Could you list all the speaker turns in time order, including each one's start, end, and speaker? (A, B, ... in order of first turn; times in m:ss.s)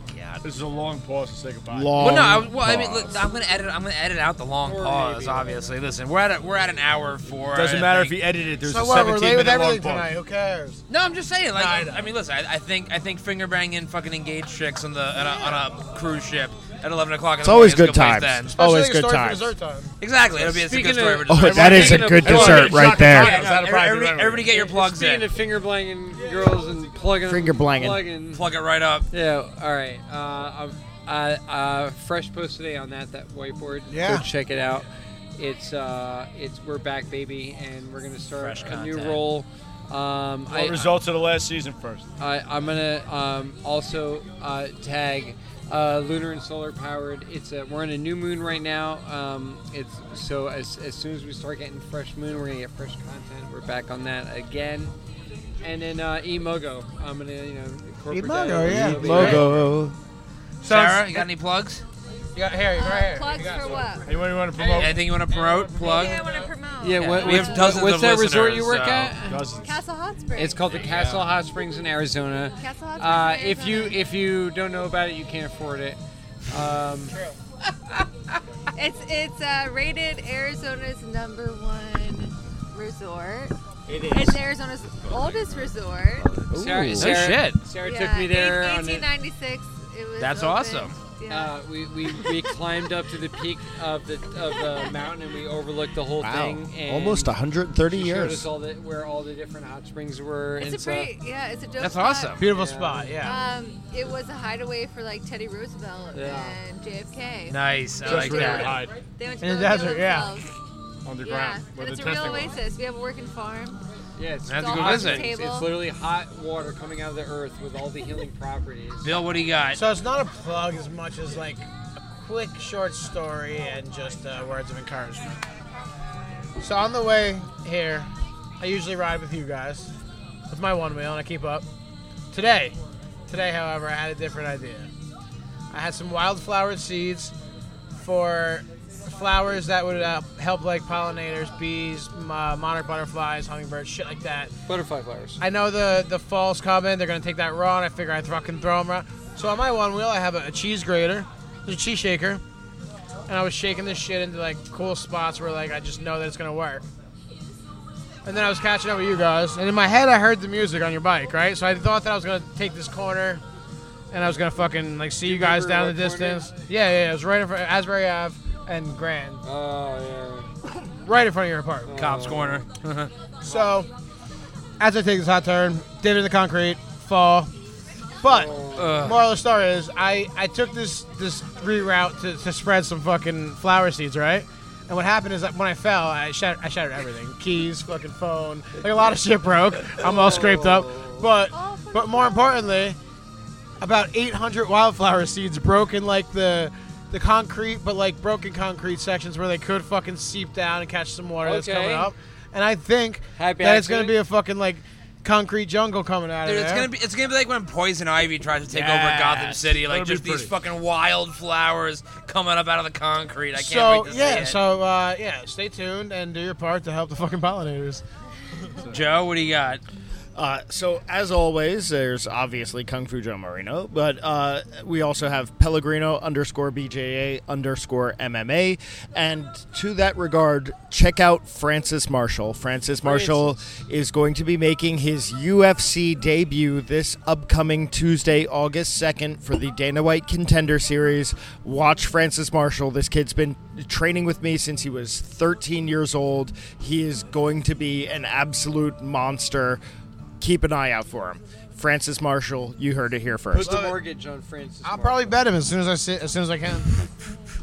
0:00.1-0:00.4 A
0:00.4-0:02.0 B
0:01.7-0:03.3 C
0:02.0-0:08.2 A
0:04.6-0:05.6 D
0:07.5-0:10.1 B
0:08.6-0:10.8 E
0:10.9-0:18.6 A
0:11.5-0:12.1 E
0:17.4-0:19.5 C
0:18.6-0:19.9 E
0:20.0-0:22.1 A
0:20.4-0:22.9 D
0:21.3-0:23.4 C
0:21.4-0:24.4 B
0:22.8-0:24.4 E
0:23.1-0:25.3 A
0:24.5-0:28.5 D
0:26.4-0:26.6 E
0:27.2-0:28.1 C
0:28.3-0:29.1 A
0:29.1-0:40.9 D
0:33.9-0:34.3 E
0:38.4-0:39.3 A
0:40.5-0:42.1 B
0:42.2-0:54.9 D
0:55.6-0:59.6 D
0:58.1-0:59.6 E
0:58.6-1:00.0 C
0:59.0-0:59.6 B
1:00.6-1:01.3 E
1:00.6-1:01.8 A
1:02.4-1:04.0 E
1:02.7-1:04.2 F
1:04.0-1:05.0 B
1:04.6-1:06.5 E
1:04.6-1:06.3 A
1:05.7-1:07.9 F
1:06.8-1:09.5 D
1:07.0-1:09.1 A
1:09.3-1:09.8 B
1:09.6-1:10.7 F
1:10.4-1:17.2 D
1:10.7-1:11.4 B
1:12.5-1:14.1 F
1:17.1-1:17.4 E
1:18.8-1:23.6 F
1:24.1-1:26.3 F
1:25.1-1:25.5 B
1:26.4-1:27.3 C
1:26.6-1:29.1 D
1:26.9-1:27.6 A
1:27.8-1:32.5 F
1:30.2-1:31.0 A
1:31.3-1:37.3 D
1:34.5-1:34.9 F
1:36.2-1:38.5 C
1:37.9-1:41.1 D
1:40.6-1:42.5 F
1:41.8-1:42.4 A
1:42.4-1:43.4 E
1:42.5-1:43.2 D
1:43.2-1:50.5 F
1:46.1-1:46.6 D
1:47.5-1:48.8 A
1:48.0-1:49.0 B
1:48.3-1:48.7 D
1:49.4-1:50.4 E
1:51.0-1:52.6 B
1:51.2-1:53.8 F
1:54.2-1:59.2 D
1:54.5-1:55.3 A
1:54.5-1:55.8 F
1:59.0-1:59.8 A
1:59.7-2:05.4 E
2:06.6-2:08.1 E
2:08.6-2:09.9 E
2:10.5-2:11.6 E
2:12.3-2:12.8 E
2:13.3-2:14.9 E
2:15.7-2:17.3 E
2:18.0-2:24.5 E
2:24.7-2:25.4 D
2:25.4-2:32.4 E
2:33.3-2:36.9 E
2:38.2-2:43.4 E
2:44.1-2:49.4 E
2:45.2-2:46.4 D
2:49.4-2:50.5 D
2:50.8-2:52.0 E
2:51.9-2:52.7 D
2:52.0-2:53.1 A
2:53.4-2:53.9 E
2:54.8-2:57.5 E
2:58.2-3:13.0 E
2:58.2-2:59.1 D
2:58.8-2:59.3 A
3:10.0-3:11.3 D
3:11.5-3:12.7 F
3:13.8-3:26.9 E
3:21.4-3:22.1 D
3:23.4-3:24.2 D
3:26.4-3:34.6 A
3:28.7-3:30.5 B
3:33.6-3:38.0 E
3:38.9-3:39.8 A
3:40.4-4:09.8 C
3:53.0-3:53.6 D
4:10.4-4:13.8 C
4:13.5-4:15.2 D
4:13.6-4:14.0 E
4:14.8-4:16.9 E